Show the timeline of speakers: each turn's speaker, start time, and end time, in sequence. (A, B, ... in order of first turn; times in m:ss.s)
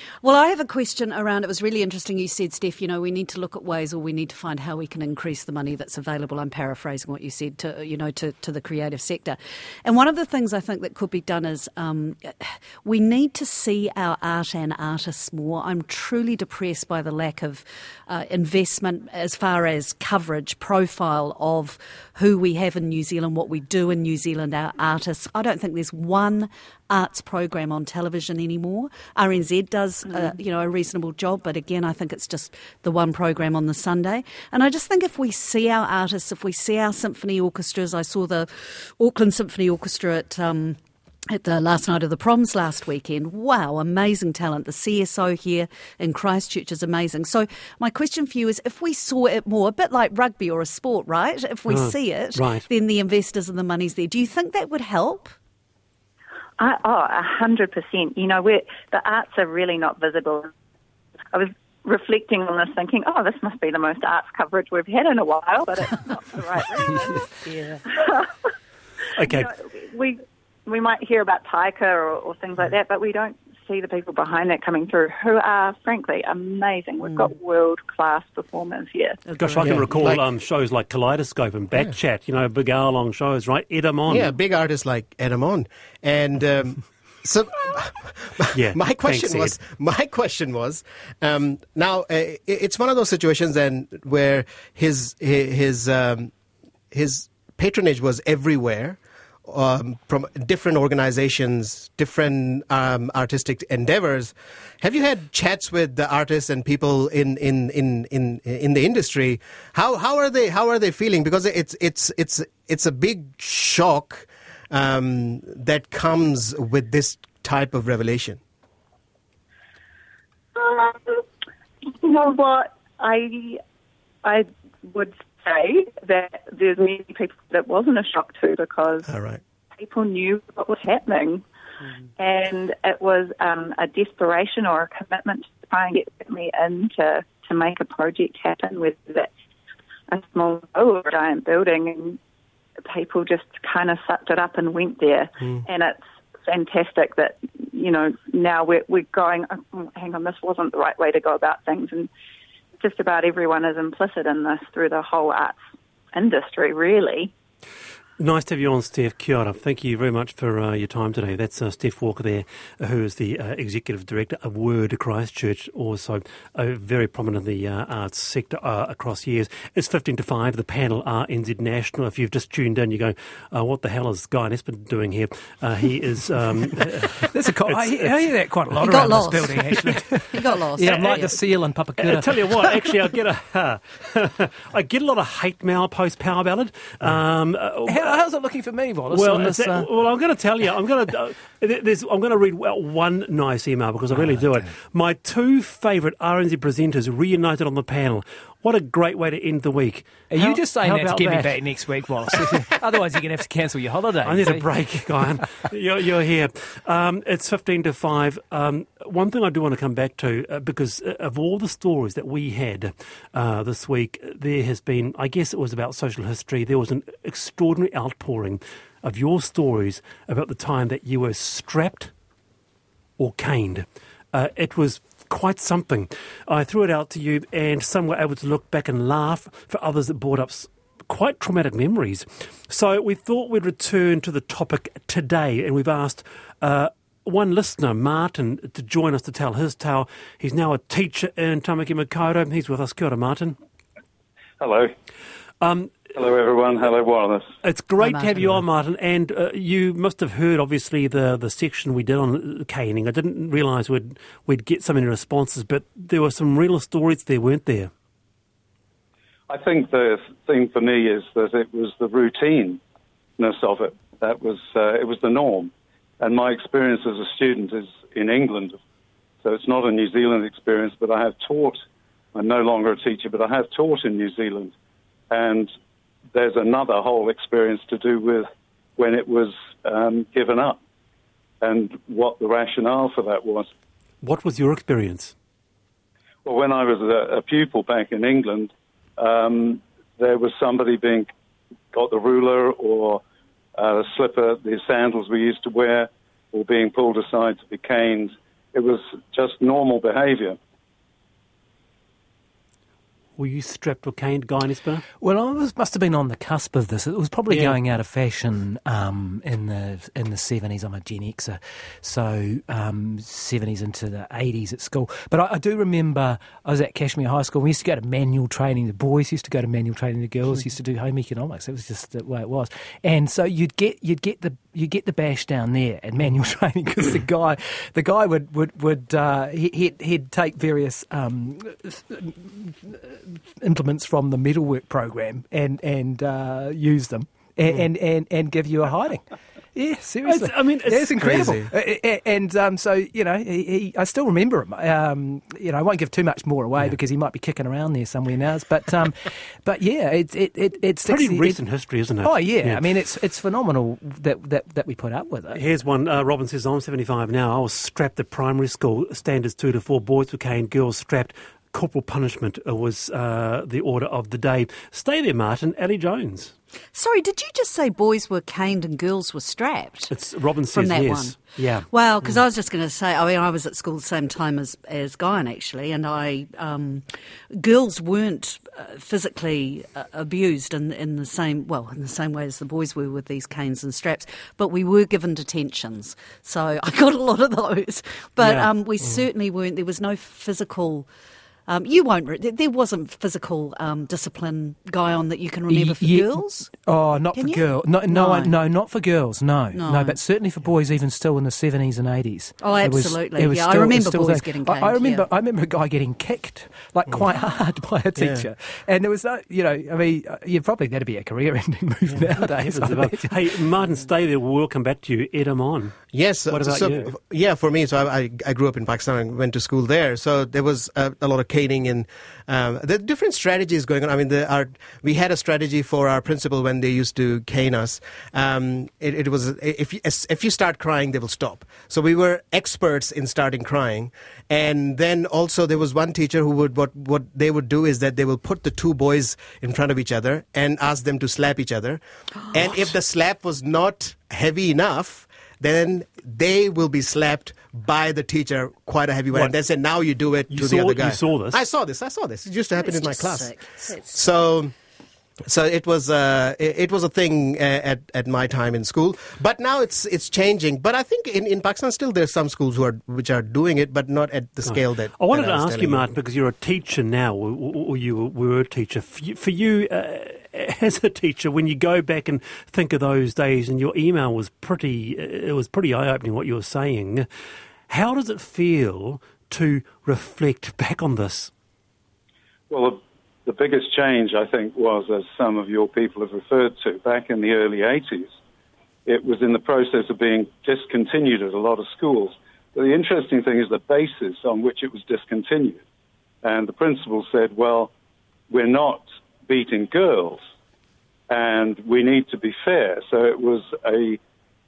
0:00.2-0:55.4 A
0:51.7-0:52.7 B
0:56.6-1:00.5 C
1:01.3-1:08.3 C
1:07.5-1:07.8 A
1:09.1-1:09.5 B
1:09.2-1:19.2 C
1:19.3-1:20.1 A
1:19.4-1:24.3 B
1:19.6-1:20.2 D
1:24.1-1:36.3 D
1:28.5-1:29.6 B
1:36.9-1:58.4 D
2:00.6-2:01.2 C
2:01.8-2:03.6 C
2:04.2-2:09.1 C
2:09.1-2:09.4 D
2:09.8-2:11.4 C
2:12.2-2:19.3 C
2:20.1-2:22.2 C
2:22.8-2:32.1 C
2:32.8-2:35.6 C
2:36.1-2:37.3 C
2:38.2-2:58.1 B
2:57.2-3:02.9 E
2:58.8-3:01.4 A
3:00.9-3:01.2 B
3:02.0-3:08.2 B
3:07.8-3:09.9 E
3:09.1-3:21.6 B
3:20.3-3:25.4 E
3:22.3-3:22.6 B
3:24.2-3:42.1 B
3:43.2-4:03.6 B
4:04.6-4:04.9 F
4:05.6-4:06.1 B
4:06.1-4:07.5 F
4:07.6-4:17.9 B
4:08.0-4:08.6 A
4:19.5-4:22.8 F
4:23.4-4:28.8 F
4:29.4-4:31.8 F
4:32.3-4:34.7 F
4:35.3-4:35.7 F
4:36.3-4:38.4 F
4:39.0-4:40.8 F
4:41.6-4:43.7 F
4:44.2-4:45.3 B
4:46.4-4:51.3 F
4:51.9-4:53.2 F
4:53.8-5:00.6 F
5:03.4-5:05.0 B
5:05.2-5:51.6 E
5:07.5-5:07.8 B
5:40.2-5:41.5 B
5:41.2-5:41.7 D
5:51.0-5:52.8 B
5:52.2-5:55.6 E
5:55.5-6:06.5 B
6:06.9-6:10.2 A
6:10.1-6:12.4 B
6:10.7-6:31.1 A
6:28.4-6:28.7 B
6:31.7-6:36.7 A
6:35.7-6:53.5 E
6:37.3-6:38.6 A
6:39.7-6:40.2 A
6:42.6-6:45.3 A
6:48.2-6:48.4 D
6:52.6-6:57.1 B
6:56.1-7:34.7 D
7:30.5-7:31.6 B
7:32.8-7:34.2 A
7:35.4-7:46.1 D
7:44.6-7:57.3 B
7:57.9-8:01.5 B
8:02.7-8:08.3 F
8:09.1-8:15.8 F
8:16.4-8:17.9 F
8:18.5-8:20.4 F
8:21.3-8:24.2 F